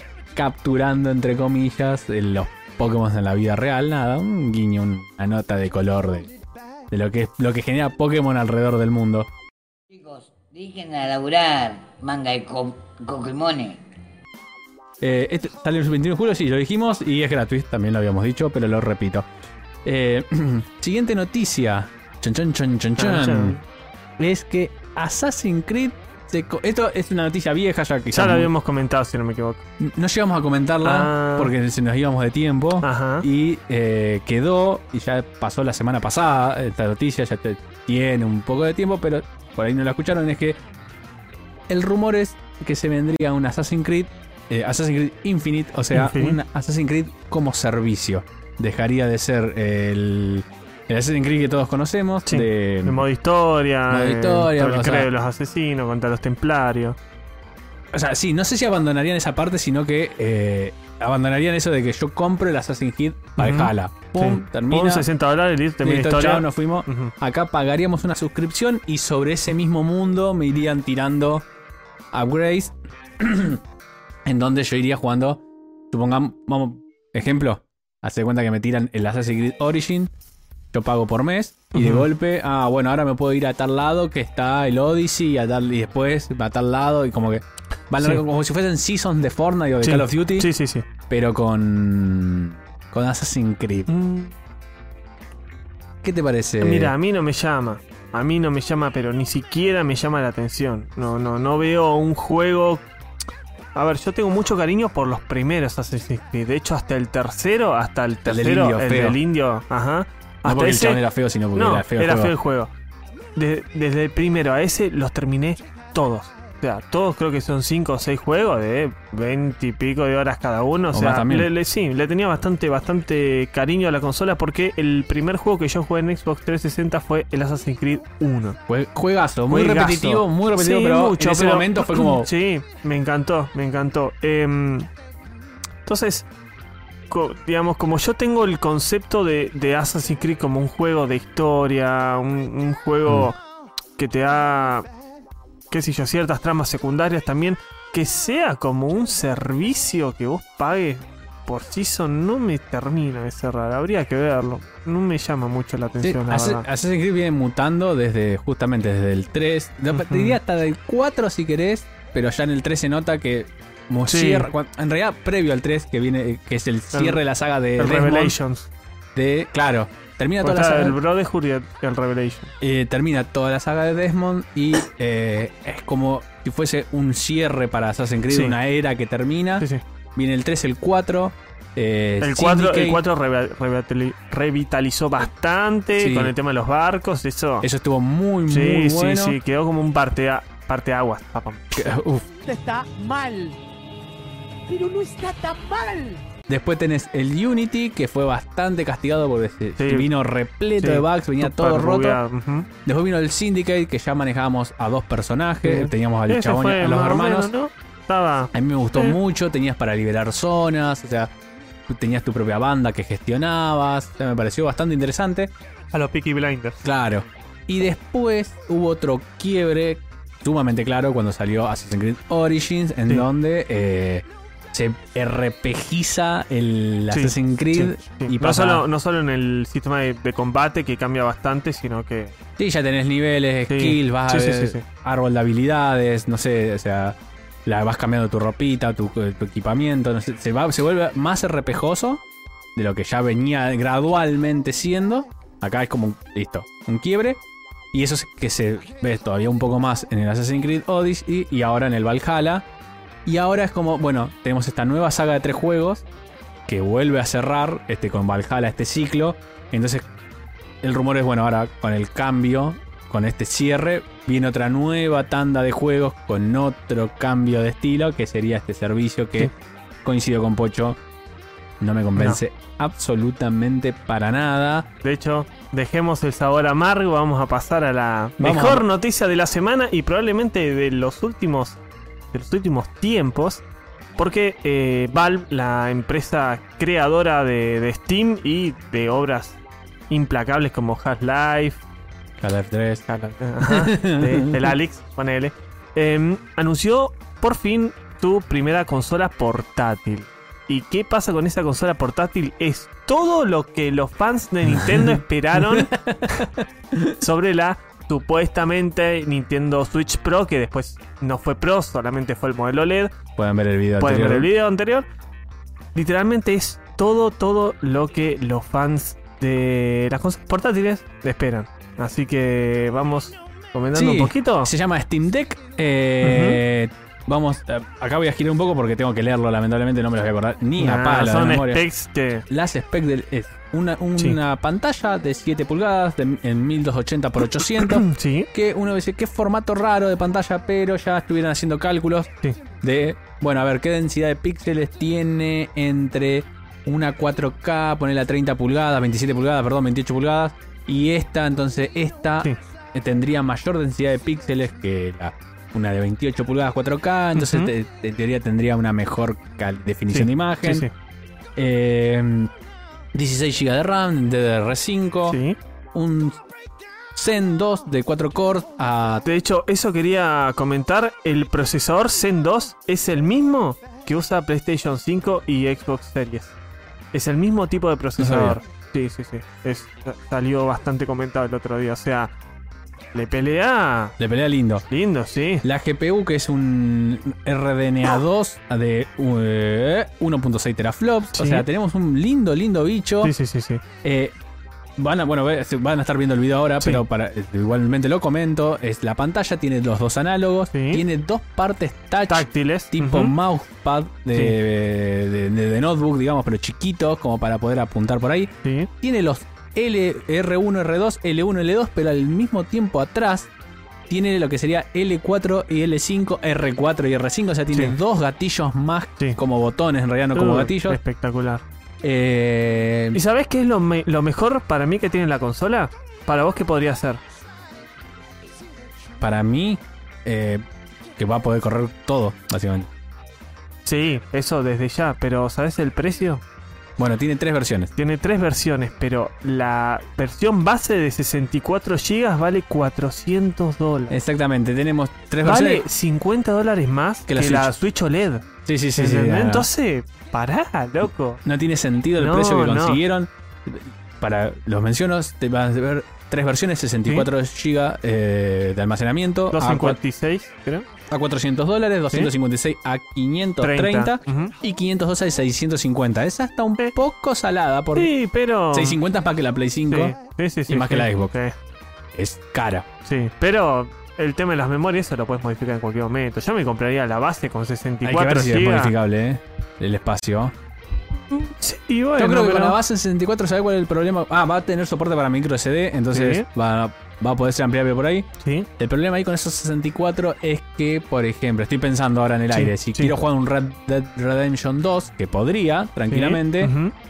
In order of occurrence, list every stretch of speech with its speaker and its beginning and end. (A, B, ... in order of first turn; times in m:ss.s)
0:00.3-0:06.3 A
0:06.9-0:09.3 A
0:09.9-0:13.8 B
0:15.0-0:19.2 A
0:19.8-0:23.6 A
0:23.0-0:23.6 C
0:24.2-0:28.5 A
0:28.1-0:29.6 C
0:29.8-0:40.6 A
0:30.8-0:31.5 C
0:32.8-0:33.2 C
0:41.7-0:53.0 A
0:45.9-0:46.4 C
0:52.2-0:57.0 C
0:53.9-0:55.1 A
0:57.9-1:05.1 A
1:03.4-1:07.1 C
1:05.8-1:11.4 A
1:12.1-1:13.6 A
1:14.2-1:20.1 A
1:20.7-1:30.5 A
1:21.7-1:22.1 C
1:29.8-1:30.9 C
1:31.1-1:33.9 A
1:33.9-1:34.3 C
1:36.0-1:36.9 A
1:36.6-1:42.8 C
1:43.7-1:51.0 C
1:48.2-1:49.2 A
1:50.4-1:52.3 A
1:51.5-1:52.7 C
1:53.4-2:08.6 C
2:00.9-2:01.5 A
2:08.7-2:12.3 A
2:09.5-2:14.9 C
2:15.8-2:16.3 C
2:17.1-2:23.4 C
2:24.0-2:24.8 C
2:25.7-2:36.6 C
2:36.0-2:48.4 A
2:39.9-2:40.4 C
2:44.1-2:44.5 C
2:46.9-2:47.2 C
2:47.8-2:48.7 C
2:49.1-2:51.0 A
2:50.4-2:52.5 C
2:52.6-3:03.0 A
2:58.3-2:58.6 C
3:02.2-3:07.7 C
3:06.0-3:06.3 A
3:07.6-3:09.4 A
3:08.5-3:11.9 C
3:11.7-3:12.4 A
3:12.5-3:13.6 D
3:14.7-3:16.2 D
3:16.5-3:22.2 A
3:19.8-3:20.1 C
3:20.8-3:22.7 C
3:22.8-3:27.5 A
3:25.6-3:29.2 C
3:28.5-3:31.3 A
3:31.9-3:35.5 A
3:35.9-3:36.8 C
3:36.8-3:48.8 A
3:47.1-3:52.3 C
3:52.6-4:02.2 A
3:53.7-3:54.8 C
4:02.8-4:07.4 A
4:07.9-4:12.6 A
4:13.2-4:16.1 A
4:16.7-4:20.0 A
4:20.8-4:29.5 A
4:30.0-4:31.0 A
4:31.8-4:34.9 A
4:32.2-4:32.4 C
4:35.0-4:41.8 C
4:38.4-4:38.8 A
4:42.3-4:43.6 C
4:44.2-4:51.8 C
4:52.4-4:53.0 A
4:53.1-5:06.4 C
4:53.6-4:54.5 A
5:04.8-5:07.2 A
5:07.2-5:13.1 C
5:13.4-5:14.5 A
5:14.0-5:15.1 C
5:15.9-5:24.7 C
5:23.9-5:31.8 A
5:26.2-5:26.6 C
5:30.8-5:32.4 C
5:32.5-5:42.3 A
5:37.8-5:38.5 C
5:42.8-6:00.8 A
5:57.3-5:57.7 C
6:00.1-6:00.9 C
6:01.6-6:02.5 A
6:03.1-6:05.4 A
6:05.3-6:05.6 C
6:05.9-6:06.4 A
6:07.1-6:09.2 A
6:09.2-6:16.5 C
6:17.1-6:22.3 C
6:18.2-6:18.6 A
6:23.1-6:24.2 C
6:24.2-6:24.8 A
6:24.9-6:25.6 C
6:25.6-6:33.3 A
6:31.4-6:31.6 C
6:33.2-6:33.8 C
6:34.0-6:34.3 A
6:35.0-6:53.5 A
6:40.7-6:41.0 C
6:42.3-6:43.3 C
6:48.6-6:48.9 C
6:54.1-7:01.0 A
6:57.7-6:58.0 C
7:00.3-7:01.6 C
7:02.0-7:03.2 A
7:03.1-7:07.2 C
7:09.2-7:10.6 A
7:11.2-7:12.9 A
7:13.8-7:16.4 C
7:17.0-7:17.9 A
7:18.0-7:24.2 C
7:24.1-7:25.8 A
7:25.4-7:31.4 C
7:27.3-7:27.7 A
7:28.6-7:29.7 A
7:31.4-7:40.0 A
7:32.2-7:33.0 C
7:39.5-7:40.9 C
7:41.1-7:48.1 A
7:43.6-7:44.5 C
7:47.9-7:49.0 C
7:48.7-7:50.2 A
7:49.9-7:51.5 C
7:50.7-7:51.3 A
7:52.2-7:52.8 A
7:53.0-7:58.9 C
7:58.0-8:00.5 A
8:01.3-8:02.8 C
8:02.2-8:08.3 A
8:06.1-8:06.5 C
8:08.4-8:08.7 C
8:08.8-8:16.7 A
8:12.5-8:13.1 C
8:16.1-8:16.9 C